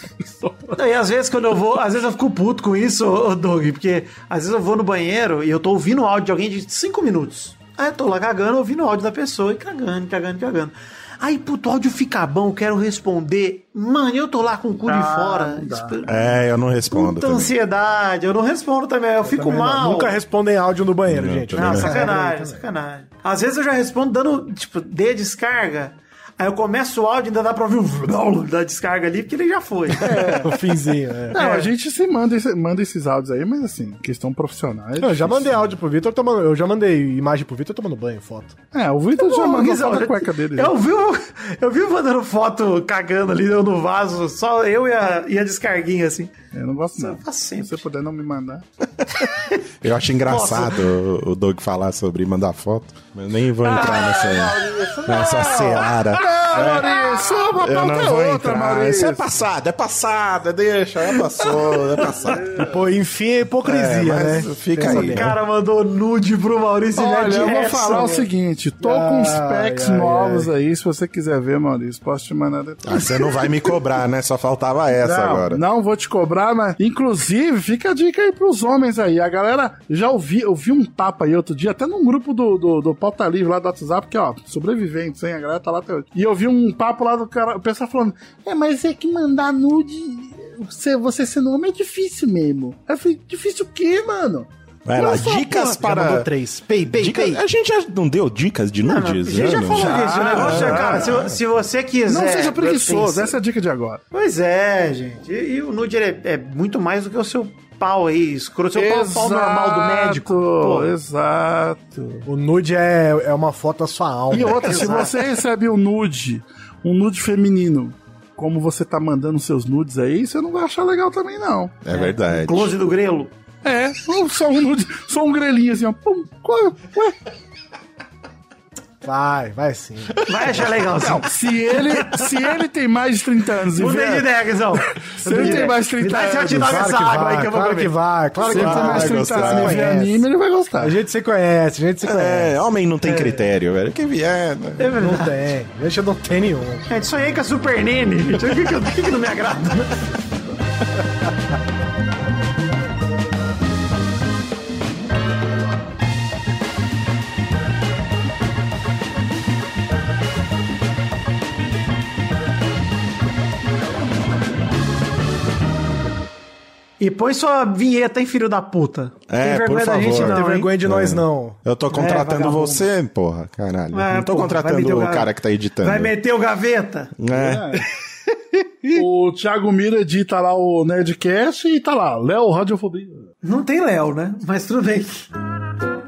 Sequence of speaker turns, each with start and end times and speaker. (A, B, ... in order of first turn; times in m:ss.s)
0:00.2-0:00.8 A
0:00.7-0:20.2 B
0:14.8-0:16.0 A
0:16.0-0:17.5 C
0:19.3-0:19.7 A
0:19.4-0:22.6 D
0:21.0-0:22.0 C
0:21.5-0:30.1 B
0:29.9-0:30.6 A
0:30.4-0:31.4 D
0:31.3-0:35.8 A
0:31.3-0:31.7 B
0:35.0-0:38.5 D
0:38.7-0:40.8 A
0:39.2-0:46.3 B
0:46.5-0:48.6 A
0:47.0-0:47.8 B
0:49.8-1:02.6 C
0:50.3-0:50.8 B
0:53.7-0:54.5 B
0:53.8-0:59.2 A
0:55.2-0:56.7 B
1:01.4-1:02.4 B
1:02.5-1:05.3 D
1:03.6-1:05.4 C
1:04.8-1:08.2 B
1:06.9-1:13.5 A
1:08.8-1:10.5 D
1:12.8-1:15.6 C
1:15.0-1:35.2 A
1:34.8-1:36.3 C
1:35.0-1:37.4 D
1:36.8-1:41.4 C
1:38.9-1:43.4 B
1:39.7-1:41.2 A
1:42.1-1:44.0 A
1:44.1-1:50.9 B
1:48.7-1:52.3 A
1:52.2-1:54.9 D
1:54.3-2:01.8 A
1:54.4-1:55.1 B
2:01.8-2:02.7 C
2:01.9-2:03.3 B
2:03.6-2:07.2 A
2:09.0-2:10.2 D
2:10.2-2:12.3 B
2:11.0-2:14.3 A
2:13.7-2:18.7 B
2:15.0-2:16.9 A
2:15.2-2:15.7 D
2:16.4-2:20.2 D
2:18.4-2:21.0 A
2:18.5-2:19.8 C
2:20.8-2:22.5 D
2:22.0-2:24.9 C
2:23.0-2:23.4 B
2:24.8-2:25.4 B
2:25.0-2:26.9 D
2:26.9-2:30.2 B
2:47.0-2:50.7 B
2:49.3-2:56.1 C
2:50.1-2:51.6 D
2:51.9-2:52.9 B
2:53.9-2:55.3 B
2:55.8-2:57.1 B
2:57.2-2:57.8 C
2:57.3-2:57.8 A
2:58.9-3:03.2 A
3:03.4-3:05.3 B